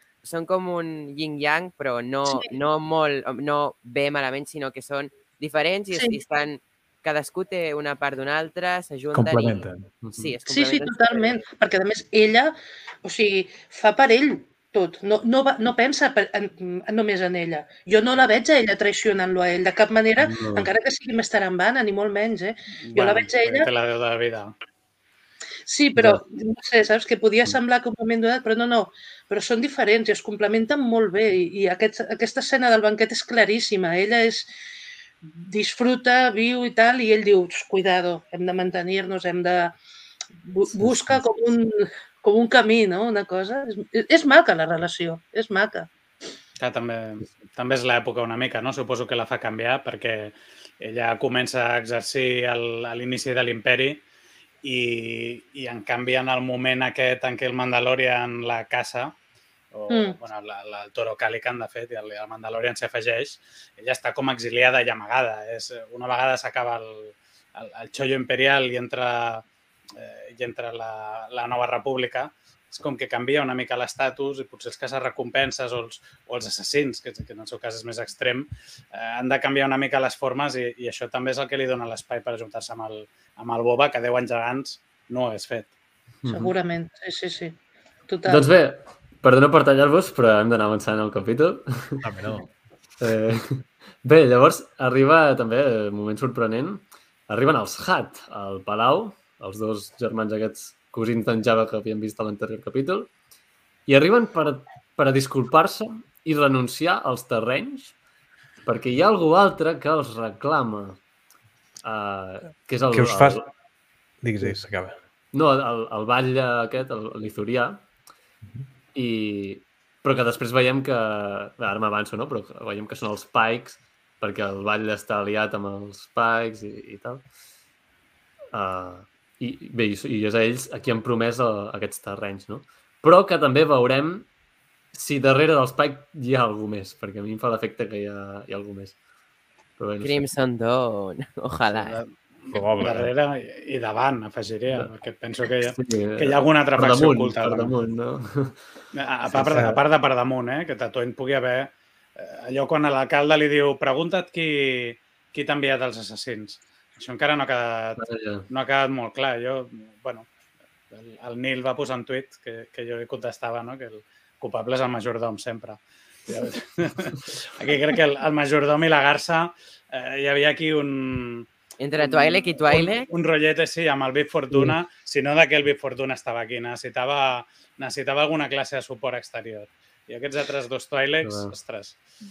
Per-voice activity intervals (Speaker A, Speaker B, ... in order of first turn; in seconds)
Speaker A: 0.2-11.4, 140.0-142.0, 171.8-173.1
Speaker B: 5.9-6.2, 10.5-23.7, 25.6-34.5, 35.2-39.8, 40.4-45.9, 59.9-60.2, 86.3-87.6, 88.1-88.4
Speaker C: 9.1-9.9, 92.0-92.5, 112.9-113.5, 114.2-115.0, 142.5-143.1, 149.3-149.8
Speaker D: 10.0-10.3, 20.2-20.7, 25.9-26.2, 40.7-41.2, 86.2-86.5, 88.2-92.0, 93.0-103.1, 103.9-107.9, 108.6-111.0, 111.8-113.5, 115.3-117.8, 118.9-127.2, 128.5-134.3, 134.9-138.9, 139.8-140.3, 145.7-148.7, 149.3-149.7, 158.0-158.5, 174.5-174.8, 181.2-181.5
Speaker E: 22.8-24.5, 46.6-54.0, 54.6-59.1, 59.7-85.7, 141.7-147.7, 148.9-160.3, 160.9-182.0